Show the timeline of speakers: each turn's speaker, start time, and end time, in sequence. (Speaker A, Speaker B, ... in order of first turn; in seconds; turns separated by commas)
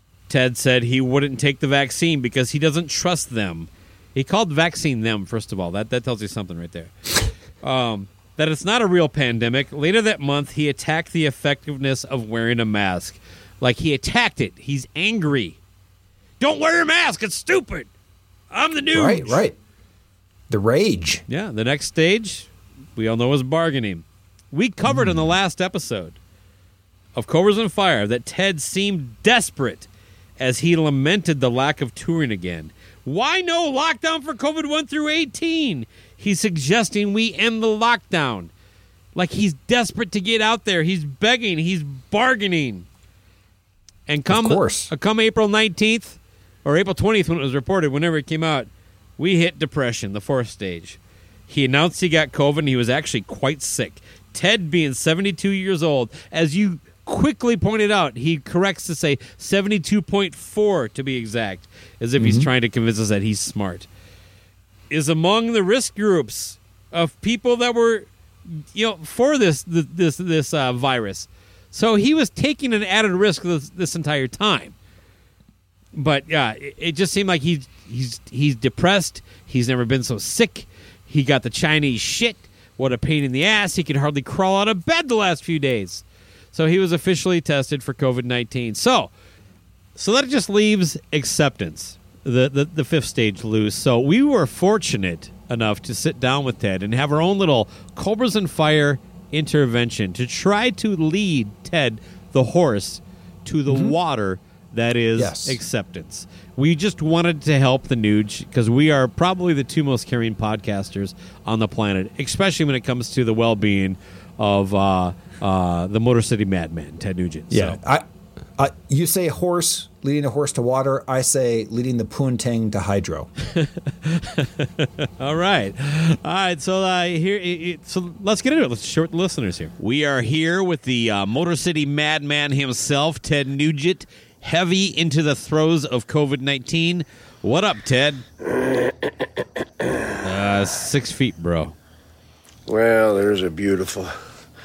Speaker A: 0.3-15.6, Speaker A: 16.4-17.9, Speaker A: 18.5-19.4, Speaker B: 18.9-19.6, Speaker B: 20.5-21.2, Speaker A: 21.3-26.2, Speaker B: 24.9-25.3, Speaker A: 27.2-38.5, Speaker A: 39.1-42.9, Speaker A: 44.1-63.9, Speaker B: 44.3-44.9, Speaker B: 62.2-62.5, Speaker A: 64.9-74.8, Speaker A: 76.0-89.1, Speaker A: 90.0-117.8, Speaker B: 103.7-104.0, Speaker B: 105.2-105.6, Speaker B: 117.5-118.0, Speaker B: 118.6-123.3, Speaker A: 123.5-138.2, Speaker C: 138.5-139.3, Speaker A: 140.2-141.8, Speaker C: 142.7-144.1